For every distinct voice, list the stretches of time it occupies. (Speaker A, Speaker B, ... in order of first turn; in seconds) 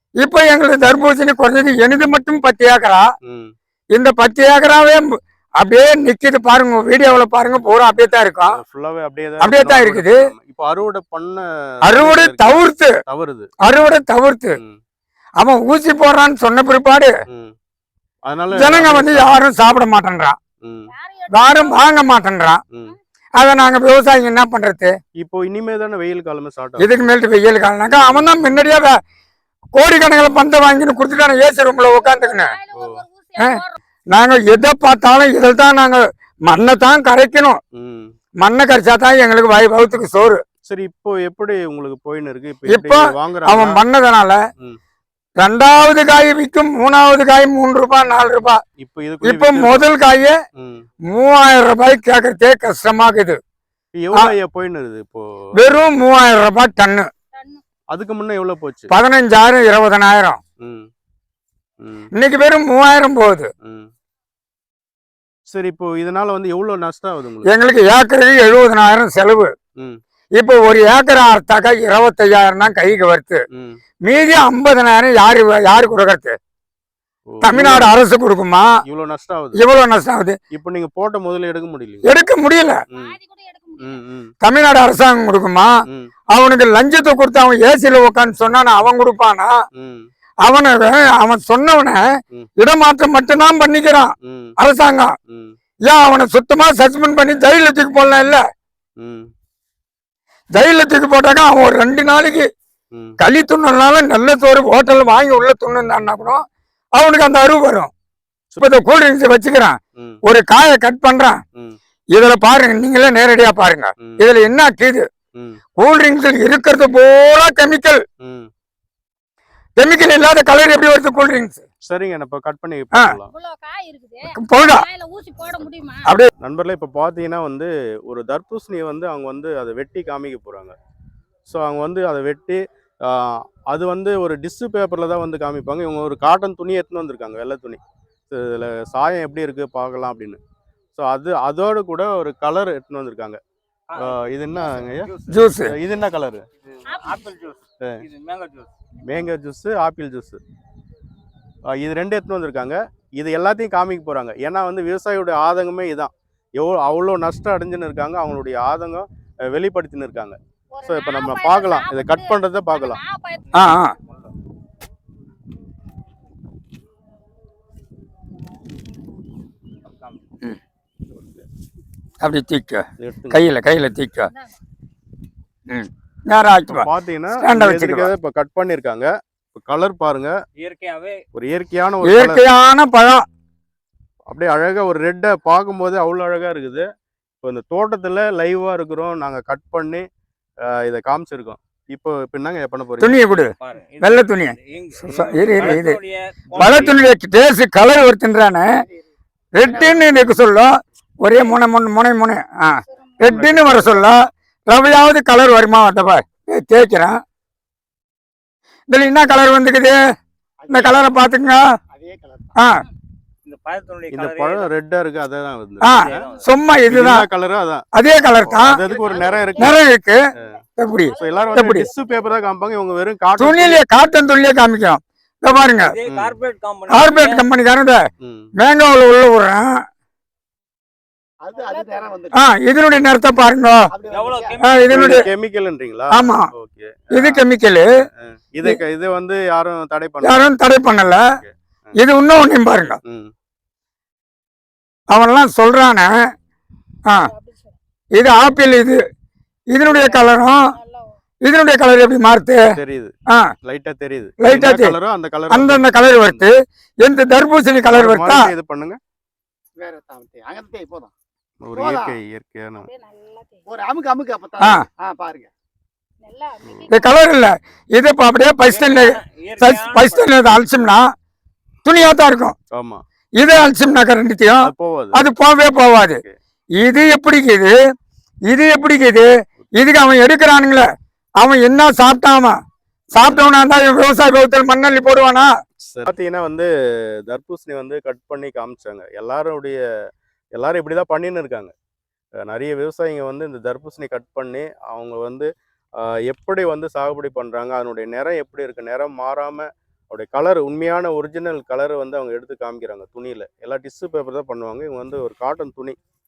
Speaker A: 0.2-3.1, 3.9-5.1, 5.6-8.5, 9.4-10.2, 11.9-12.9, 13.6-14.6, 15.4-17.1, 18.5-20.4, 21.3-22.6, 23.4-24.9, 26.8-29.0, 29.8-32.5, 34.1-37.6, 38.4-40.4, 42.7-44.4, 45.4-48.6, 49.2-50.4, 51.1-53.4, 55.6-57.1, 58.9-60.4, 62.2-63.5, 67.5-69.5, 70.4-73.4, 74.0-76.3, 77.4-78.7, 79.6-80.4, 82.1-82.8, 84.4-85.7, 86.3-89.5, 90.4-92.0, 92.6-95.1, 95.9-98.4, 100.5-102.5, 103.2-106.4, 107.0-107.9, 108.6-111.4, 112.1-115.1, 115.8-118.0, 119.8-121.6, 124.3-124.8, 145.3-145.7, 163.5-163.9, 172.2-174.3, 175.7-178.1, 182.0-183.3, 193.0-196.0, 196.5-198.7, 199.5-200.7, 201.2-207.2, 208.9-210.0, 210.7-211.6, 215.8-217.3, 217.9-218.9, 219.6-220.2, 220.8-221.9, 223.4-225.9, 226.9-228.0, 228.6-229.6, 232.3-233.9, 234.6-235.3, 236.1-236.5, 237.1-237.8, 240.2-241.2, 242.0-243.0, 245.1-246.1, 248.2-249.0, 249.7-250.6, 251.4-252.6, 254.4-254.9, 255.5-258.5, 264.6-264.9, 266.9-271.0, 271.9-272.6, 273.4-276.2, 276.8-277.8, 278.5-280.9, 281.4-282.6, 283.1-285.5
Speaker B: 3.2-3.5, 8.5-13.5, 17.3-17.5, 18.2-19.4, 20.6-20.9, 25.2-26.9, 28.0-28.4, 32.8-33.0, 37.7-38.1, 40.6-43.8, 48.8-49.9, 50.6-50.8, 54.0-55.2, 57.9-58.9, 60.6-60.9, 61.8-62.1, 63.6-63.9, 65.5-67.5, 73.5-73.8, 77.3-78.0, 78.8-79.6, 80.5-82.1, 83.8-84.3, 89.8-90.0, 94.2-94.5, 95.3-95.6, 99.0-99.3, 102.9-103.2, 115.3-115.6, 118.2-118.5, 121.8-123.3, 126.4-130.8, 131.5-137.8, 138.3-140.4, 140.9-143.4, 144.0-145.1, 145.7-146.4, 149.1-150.4, 151.7-163.0, 171.1-171.4, 173.0-173.4, 176.7-180.3, 181.3-182.4, 184.3-186.8, 187.4-190.1, 190.7-193.2, 203.2-204.0, 214.1-216.2, 216.9-217.9, 218.5-219.8, 221.1-223.8, 226.1-226.3, 228.2-228.5, 234.9-240.5, 241.3-242.0, 243.1-243.3, 252.7-256.5, 257.9-259.0, 261.6-262.9, 272.7-273.0, 274.6-275.2, 283.2-283.5, 285.8-286.7, 287.3-289.8, 290.6-291.7, 292.4-295.5, 296.0-306.0
Speaker C: 20.9-22.1, 32.1-33.8, 57.3-57.6, 83.0-84.0, 123.3-126.1, 146.9-147.2, 160.7-163.6, 231.6-232.1, 247.4-247.7, 262.8-263.7, 266.2-267.1
Speaker D: 143.9-145.4, 146.9-148.7, 169.9-170.2, 180.6-181.2, 193.6-197.0, 213.5-214.7, 215.9-216.5, 225.9-227.4, 234.1-235.3, 268.7-270.3
Speaker E: 199.7-200.0, 210.6-211.1, 211.9-212.5, 231.4-232.3, 233.9-234.6, 259.8-261.1, 261.8-262.2, 263.7-265.5